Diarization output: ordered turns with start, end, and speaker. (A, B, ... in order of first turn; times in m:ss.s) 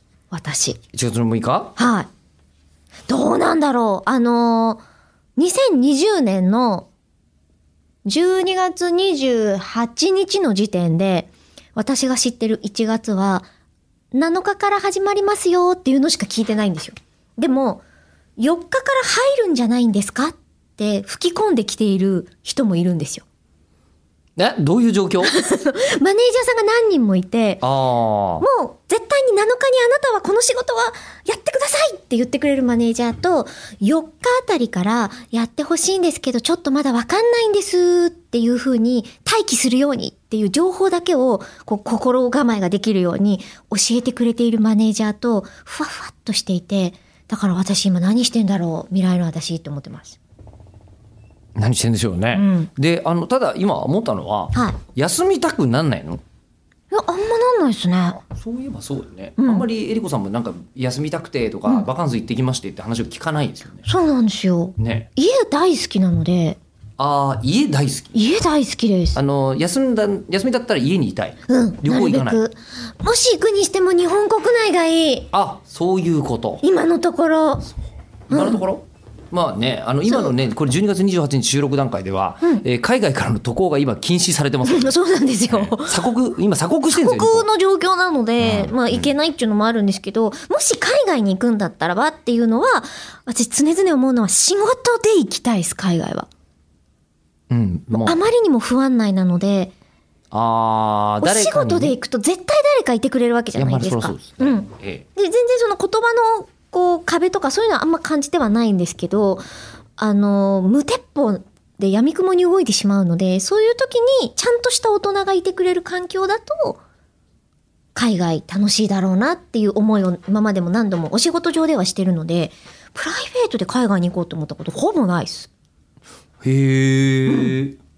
0:00.3-0:00.8 A
0:00.9-0:01.7 B
0:01.8-0:02.1 A
0:03.1-0:04.8 A
0:05.4-0:06.9 A
0:08.0-0:13.4 A
0:14.1-0:17.8 A
0:18.4-0:23.2 A
0:24.4-0:25.3 B
0:25.2-0:27.6 A
0:27.6-0:28.4 B
0:28.4-0:50.2 A
0:51.6-0:56.2 B
0:52.3-0:52.7 A
0:56.9-0:58.2 A
0:58.3-1:03.8 B
0:59.4-0:59.6 A
1:03.8-1:06.6 A
1:04.8-1:05.1 B
1:07.0-1:08.1 B
1:08.1-1:09.2 A
1:09.1-1:12.4 B
1:11.5-1:15.3 A
1:15.3-1:16.6 B
1:16.6-1:17.7 A
1:18.3-1:18.6 A
1:18.3-1:25.0 B
1:20.1-1:20.3 A
1:24.6-1:26.0 A
1:25.5-1:27.4 B
1:26.9-1:36.3 A
1:28.4-1:29.1 B
1:37.5-1:38.2 B
1:37.9-1:39.7 A
1:40.3-1:42.0 B
1:41.2-1:49.4 A
1:43.5-1:45.0 B
1:50.0-1:56.8 A
1:57.9-2:05.5 A
2:06.4-2:07.8 B
2:07.3-2:07.6 A